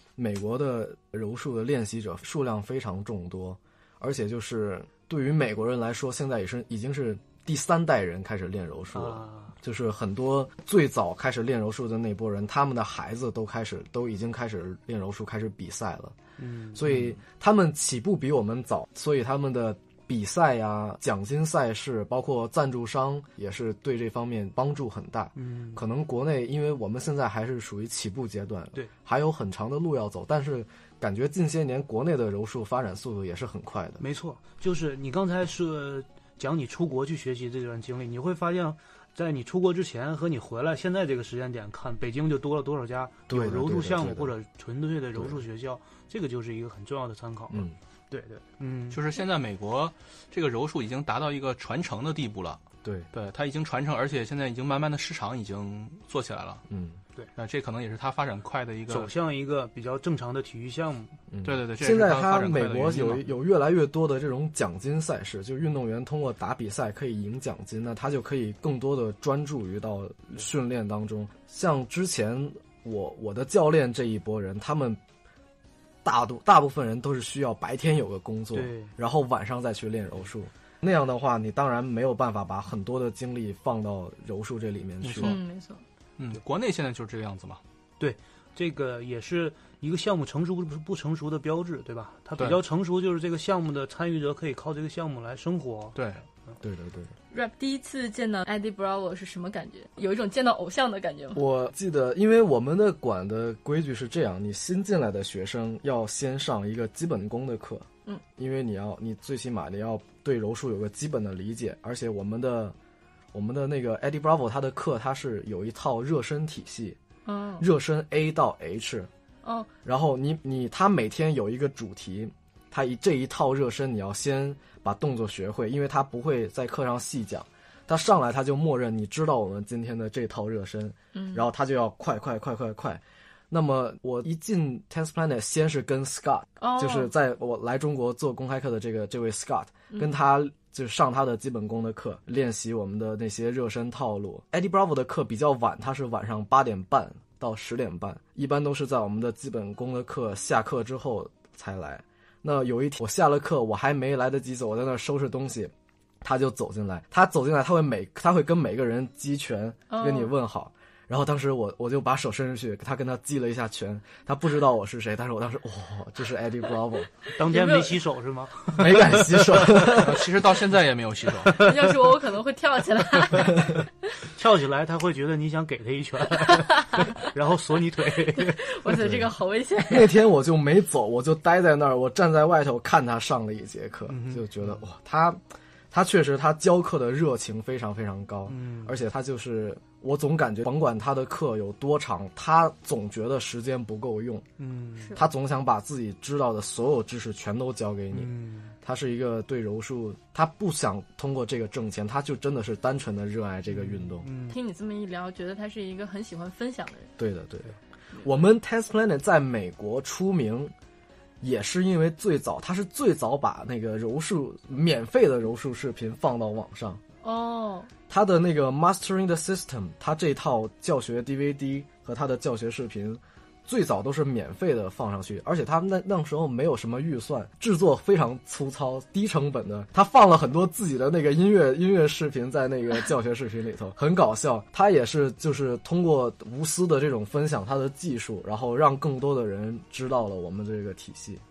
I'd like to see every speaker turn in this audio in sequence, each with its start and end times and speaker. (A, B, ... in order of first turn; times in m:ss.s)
0:00.2-0:16.1 A
0:08.9-0:09.5 B
0:16.4-0:17.1 B
0:16.7-0:34.0 A
0:25.4-0:25.8 B
0:34.0-0:49.0 B
0:43.3-0:44.3 A
0:48.9-0:56.6 C
0:56.7-0:57.0 A
0:57.4-0:59.1 C
0:58.9-1:01.1 B
1:01.3-1:15.0 A
1:01.4-1:03.2 C
1:16.0-1:25.4 A
1:18.5-1:18.9 B
1:25.0-1:25.4 C
1:25.2-1:25.8 D
1:26.2-1:27.6 C
1:28.0-1:36.5 B
1:36.0-1:36.2 C
1:36.6-1:37.1 A
1:37.3-1:41.4 D
1:41.3-1:52.7 A
1:53.3-1:57.0 A
1:57.2-1:57.6 D
1:57.6-1:59.1 A
1:59.4-1:59.7 D
1:59.8-2:47.2 A
2:11.1-2:11.4 D
2:16.6-2:17.1 D
2:39.9-2:40.3 D
2:47.3-2:50.0 B
2:47.5-2:48.0 D
2:48.7-2:50.2 A
2:49.8-2:51.6 C
2:51.5-2:51.9 B
2:51.5-2:53.8 D
2:54.4-2:58.8 B
2:58.3-3:00.1 D
2:58.9-2:59.3 A
2:59.9-3:05.4 A
3:04.1-3:04.8 B
3:05.9-3:14.4 A
3:08.5-3:09.0 B
3:14.6-3:15.2 B
3:15.1-3:24.3 A
3:18.1-3:18.7 B
3:23.7-3:24.6 B
3:24.5-3:27.1 D
3:27.2-3:30.7 A
3:31.4-3:37.0 A
3:37.2-3:37.9 D
3:38.1-4:01.4 A